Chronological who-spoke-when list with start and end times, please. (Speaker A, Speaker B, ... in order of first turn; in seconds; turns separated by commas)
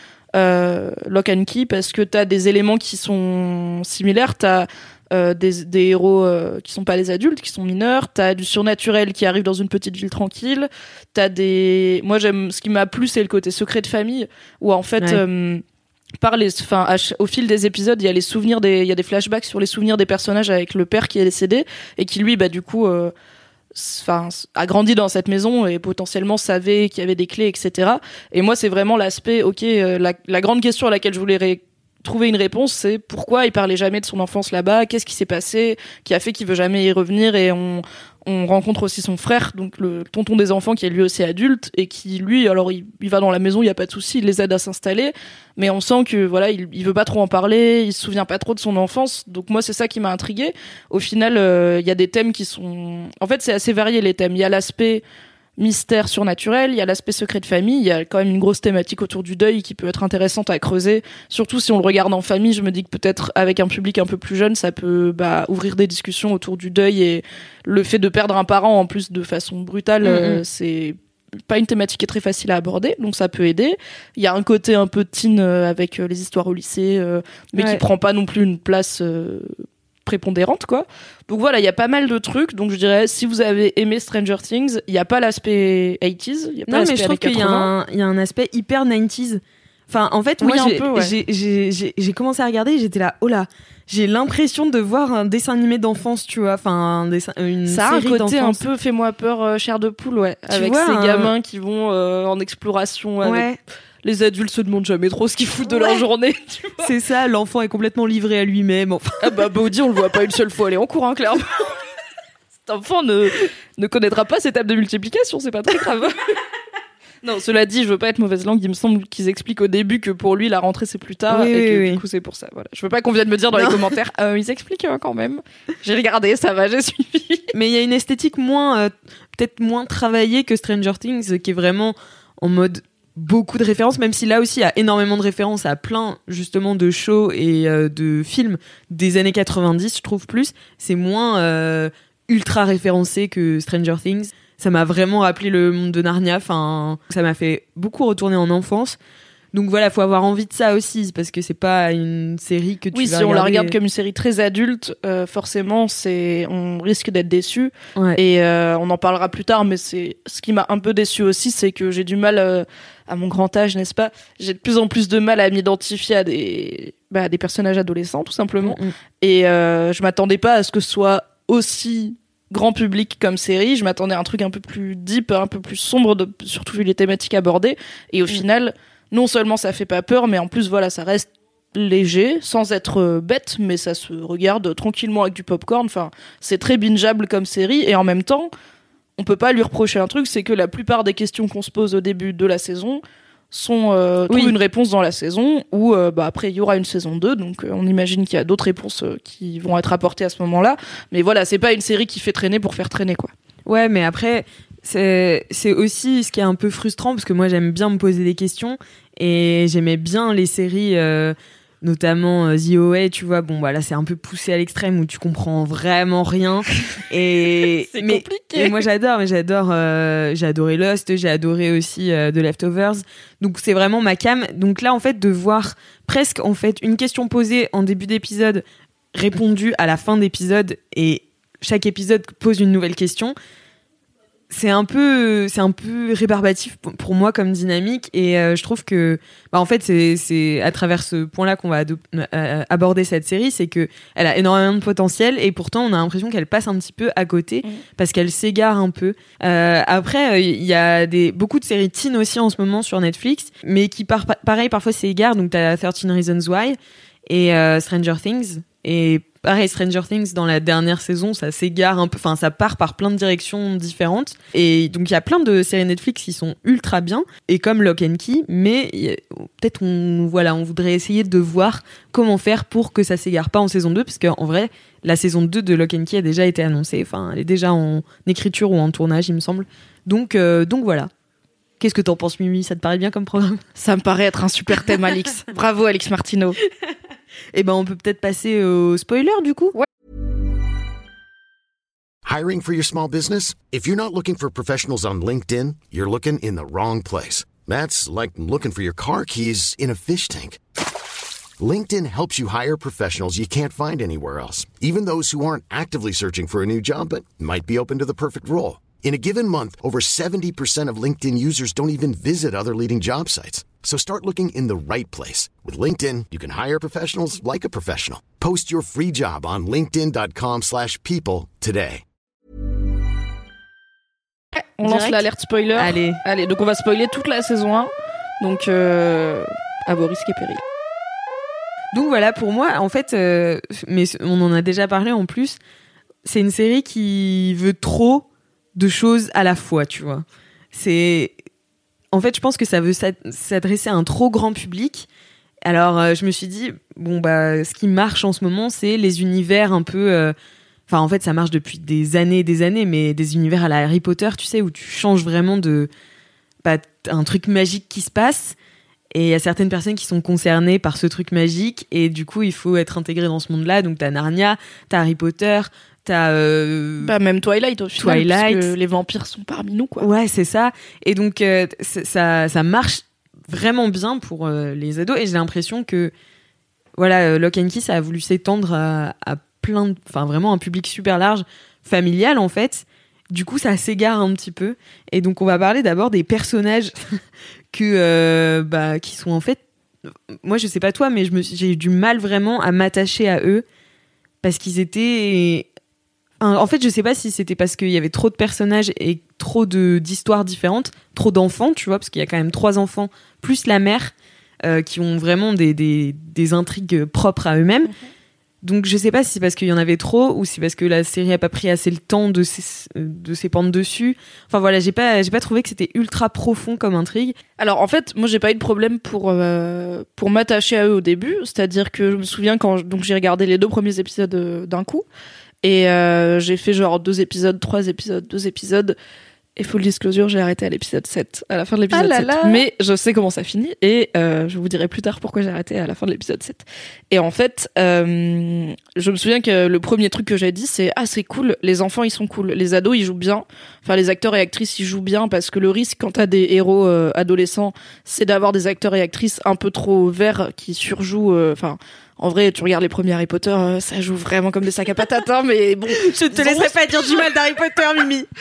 Speaker A: 0.3-15.6, Speaker A: 16.2-23.1, Speaker A: 23.8-55.0, Speaker A: 55.6-71.0, Speaker B: 70.0-70.4, Speaker A: 71.5-79.5, Speaker B: 77.6-77.8, Speaker A: 80.1-87.7, Speaker B: 86.7-98.6, Speaker A: 90.4-91.1, Speaker A: 97.7-103.5, Speaker B: 100.5-101.3, Speaker B: 103.2-103.6, Speaker A: 104.0-106.9, Speaker B: 105.7-106.0, Speaker B: 106.8-109.4, Speaker A: 109.2-111.8, Speaker A: 112.7-116.3, Speaker A: 117.2-127.5, Speaker B: 121.3-122.0, Speaker B: 123.5-123.9, Speaker B: 127.5-149.0, Speaker B: 149.5-153.7, Speaker A: 152.9-188.5, Speaker B: 168.6-168.9, Speaker A: 189.2-203.3, Speaker B: 194.3-194.5, Speaker B: 203.7-233.3, Speaker A: 217.9-218.8, Speaker B: 234.5-281.1, Speaker B: 281.8-283.6, Speaker A: 283.8-286.6, Speaker B: 287.5-289.8, Speaker C: 292.2-300.6, Speaker C: 301.6-322.0, Speaker A: 324.8-330.6, Speaker B: 324.8-325.2, Speaker B: 325.8-326.2, Speaker B: 331.9-335.6, Speaker B: 336.2-338.2, Speaker B: 338.8-341.4, Speaker B: 342.1-345.1, Speaker B: 345.6-350.4, Speaker B: 350.9-355.9, Speaker B: 356.6-358.6, Speaker B: 359.1-367.1, Speaker A: 367.0-370.1, Speaker B: 368.0-368.7, Speaker B: 370.0-376.1, Speaker B: 377.0-387.2, Speaker B: 387.7-389.6, Speaker B: 390.4-393.6, Speaker B: 394.4-395.7, Speaker B: 396.4-404.1, Speaker B: 404.6-407.9, Speaker B: 408.6-417.4, Speaker A: 417.6-425.1, Speaker A: 425.6-429.0, Speaker A: 429.6-457.3, Speaker B: 431.9-432.6, Speaker B: 455.9-458.3